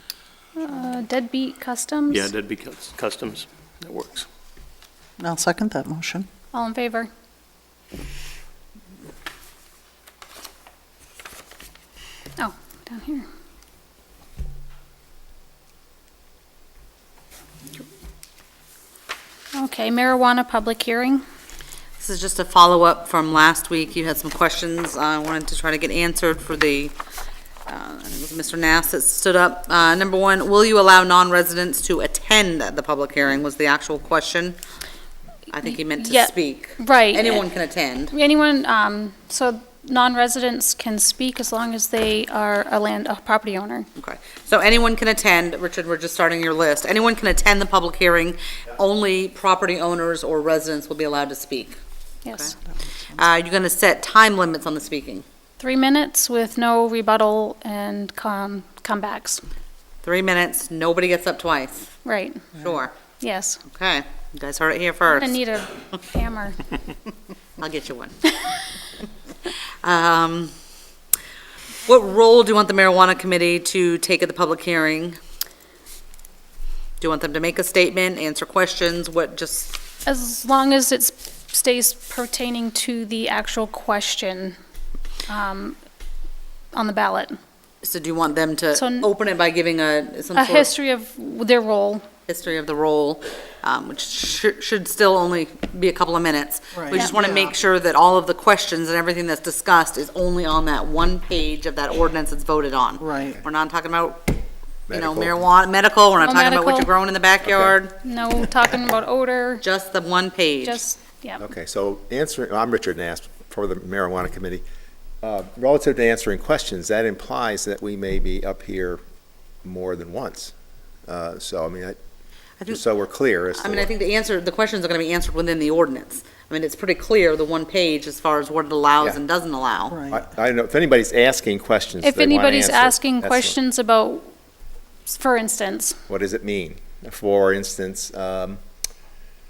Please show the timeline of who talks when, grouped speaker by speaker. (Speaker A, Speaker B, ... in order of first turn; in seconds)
Speaker A: 0.6-2.3, 6.5-7.1, 12.4-13.3, 19.5-21.2, 35.7-37.5, 38.1-43.9, 52.2-52.5, 55.6-59.4, 62.0-62.5, 63.2-63.6, 65.1-66.6, 80.1-84.6, 85.3-85.8, 86.7-87.4, 88.7-89.1, 90.3-92.1, 96.9-97.2, 106.2-106.9, 108.0-109.6, 110.6-111.5, 132.0-134.3, 135.1-136.0
Speaker B: 2.1-4.3
Speaker C: 5.2-6.3, 96.7-97.5, 103.0-103.4, 129.9-130.2
Speaker D: 22.0-27.0, 27.7-34.6, 35.5-38.1, 44.0-51.8, 52.3-52.5, 53.1-55.2, 60.0-61.9, 62.5-62.9, 63.7-65.4, 67.6-68.3, 69.8-70.5, 71.8-75.2, 77.0-79.8, 87.8-90.7, 92.3-108.0, 109.6-110.8, 123.6-130.0
Speaker E: 104.9-105.4, 107.5-107.8, 111.4-114.6, 115.2-119.0, 119.7-120.5, 121.1-122.0, 122.7-123.9, 130.1-133.6, 136.1-138.6